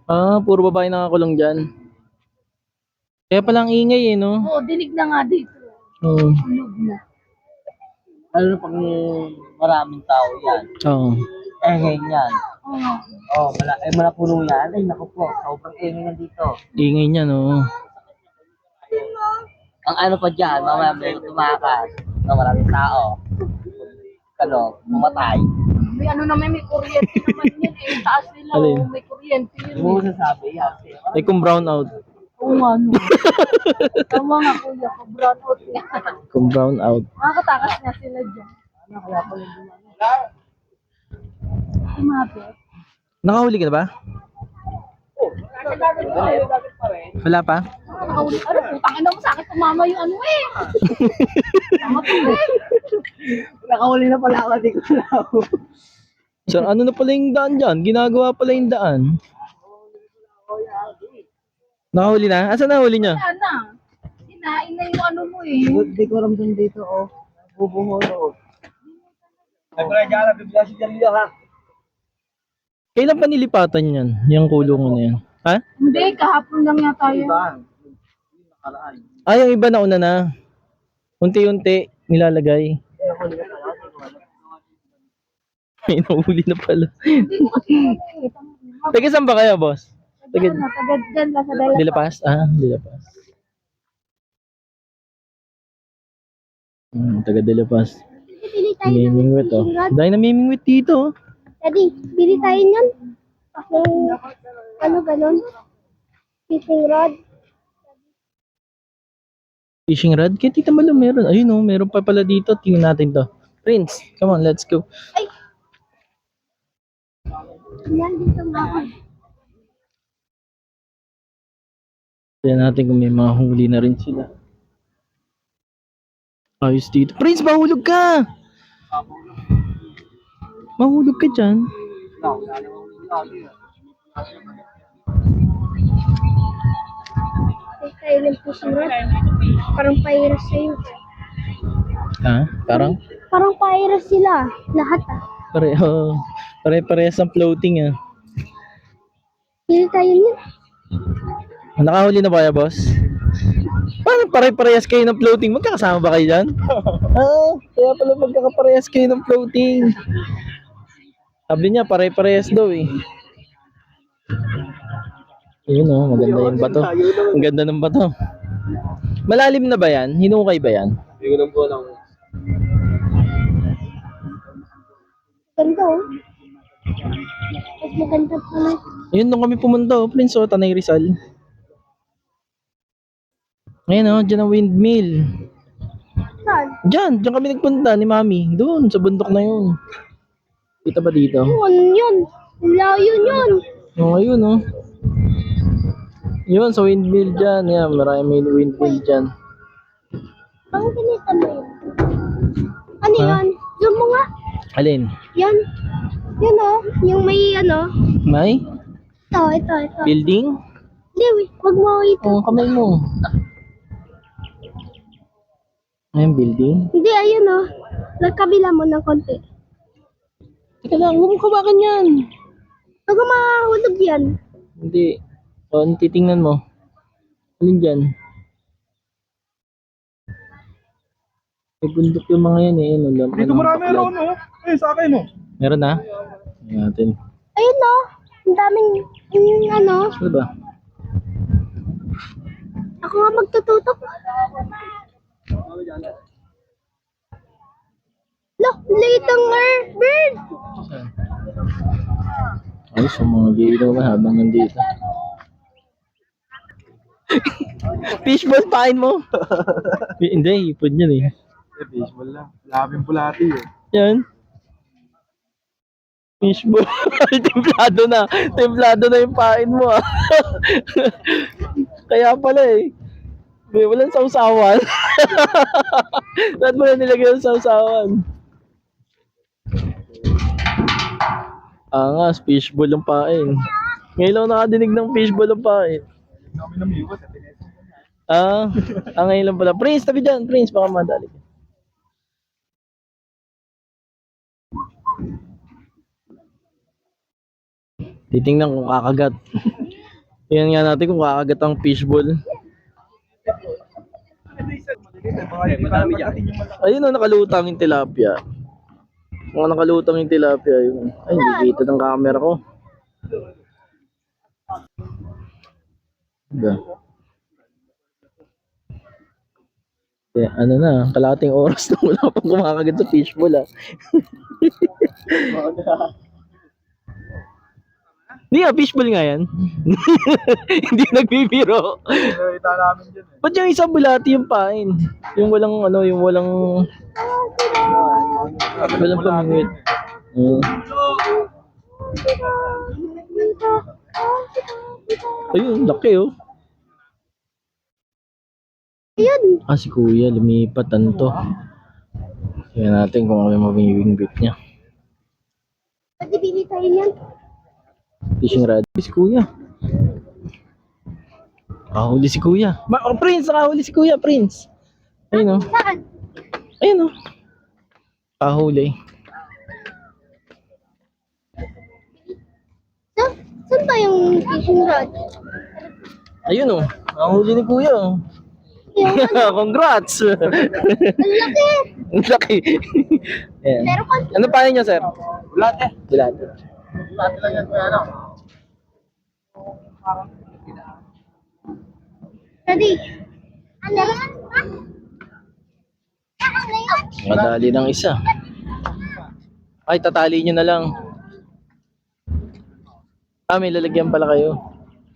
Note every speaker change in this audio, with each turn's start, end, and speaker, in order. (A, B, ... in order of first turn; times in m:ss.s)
0:00.1-0:01.6 A
0:03.3-0:04.4 A
0:04.4-0:05.7 B
0:06.0-0:06.4 A
0:06.4-0:07.0 B
0:08.3-0:10.7 C
0:10.8-0:11.2 A
0:11.6-0:12.4 C
0:12.6-0:13.2 B
0:13.3-0:16.5 C
0:16.8-0:17.7 A
0:19.8-0:23.2 C
0:24.4-0:25.6 C
0:24.9-0:30.1 B
0:27.1-0:27.7 A
0:28.5-0:28.9 A
0:29.7-0:31.5 C
0:31.1-0:31.9 A
0:32.4-0:33.2 B
0:33.1-0:34.0 A
0:33.9-0:36.1 B
0:36.3-0:37.1 A
0:37.2-0:38.5 B
0:38.9-0:39.8 C
0:41.7-0:42.5 B
0:43.2-0:43.9 A
0:45.5-0:46.5 B
0:46.1-0:46.8 C
0:47.2-0:47.6 A
0:47.9-0:50.7 B
0:50.8-0:52.0 A
0:51.8-0:52.7 B
0:53.1-0:55.6 C
0:56.5-0:59.1 A
1:00.5-1:01.0 C
1:01.9-1:03.2 A
1:03.0-1:03.6 B
1:04.2-1:05.9 B
1:05.7-1:08.3 C
1:09.8-1:11.3 C
1:13.0-1:15.6 A
1:15.8-1:17.5 B
1:17.2-1:17.6 C
1:19.2-1:20.2 A
1:21.2-1:22.8 A
1:23.2-1:23.9 C
1:25.8-1:27.8 A
1:27.1-1:29.0 B
1:28.9-1:30.6 A
1:30.2-1:32.0 B
1:31.5-1:31.8 D
1:31.7-1:33.0 A
1:36.9-1:38.0 A
1:38.3-1:40.0 D
1:38.8-1:41.1 A
1:41.6-1:42.9 D
1:43.5-1:44.2 D
1:44.8-1:45.4 D
1:46.5-1:47.1 D
1:49.9-1:54.8 A
1:57.8-1:58.9 D
2:02.4-2:04.3 A
2:06.6-2:08.3 A
2:10.8-2:11.7 A
2:12.2-2:13.5 C
2:17.8-2:21.0 D
2:22.2-2:23.0 A
2:23.3-2:25.2 D
2:25.5-2:27.9 A
2:29.7-2:30.3 D
2:31.8-2:32.8 A
2:33.5-2:40.0 A
2:41.5-2:43.0 A
2:45.7-2:48.1 A
2:48.7-2:50.9 A
2:51.4-2:51.9 C
2:55.6-2:56.0 D
2:57.5-2:58.8 D
2:59.1-3:01.1 A
3:03.9-3:05.1 A
3:06.4-3:06.8 D
3:06.9-3:09.7 A
3:10.8-3:11.5 A
3:11.4-3:13.6 D
3:14.0-3:14.6 A
3:15.4-3:15.7 A
3:16.5-3:19.3 A
3:18.8-3:19.0 D
3:20.7-3:21.7 D
3:23.0-3:24.2 D
3:23.2-3:23.4 A
3:24.7-3:25.1 A
3:26.3-3:27.9 D
3:28.2-3:28.6 A
3:29.3-3:30.1 D
3:30.0-3:30.6 A
3:31.1-3:32.7 D
3:32.2-3:33.0 A
3:36.2-3:36.9 A
3:36.9-3:37.6 D
3:38.2-3:39.4 D
3:40.8-3:42.2 A
3:43.1-3:44.3 D
3:44.8-3:45.2 A
3:45.7-3:46.6 A
3:47.6-3:48.0 A
3:51.8-3:54.2 A
3:53.5-3:55.3 E
3:55.6-3:56.0 A
3:56.6-3:57.2 A
3:57.6-4:00.1 D
4:00.2-4:00.5 A
4:03.0-4:04.0 D
4:08.6-4:10.5 D
4:10.7-4:11.1 A
4:12.9-4:14.9 A
4:17.3-4:21.3 A
4:21.8-4:23.7 E
4:23.9-4:24.2 A
4:26.4-4:32.9 A
4:33.7-4:38.2 A
4:41.9-4:43.6 A
4:44.2-4:46.0 A
4:46.7-4:47.2 E
4:48.3-4:51.4 A
4:58.3-4:59.9 A
5:00.5-5:02.3 A
5:05.5-5:06.4 C
5:06.6-5:08.4 A
5:09.5-5:12.6 A
5:11.3-5:11.8 D
5:16.5-5:16.8 A
5:20.3-5:25.7 A
5:28.5-5:32.6 A
5:32.7-5:33.1 E
5:33.4-5:36.9 A
5:37.2-5:38.2 D
5:38.7-5:39.8 A
5:40.3-5:40.7 A
5:42.0-5:45.6 D
5:45.5-5:46.3 A
5:49.2-5:49.6 D
5:49.7-5:51.4 A
5:52.7-5:54.5 A
5:56.2-5:57.1 D
5:58.4-5:59.5 A
6:01.9-6:04.7 A
6:05.3-6:05.7 A
6:05.3-6:06.0 D
6:06.8-6:07.1 A
6:08.4-6:08.9 A
6:13.1-6:15.2 D
6:16.4-6:18.2 A
6:18.9-6:19.6 D
6:19.0-6:21.5 A
6:21.2-6:21.8 D
6:22.1-6:25.1 A
6:23.8-6:24.6 D
6:25.9-6:26.5 A
6:32.7-6:33.0 D
6:33.8-6:34.7 D
6:36.4-6:37.1 D
6:37.2-6:38.2 A
6:39.9-6:40.9 A
6:43.5-6:44.6 A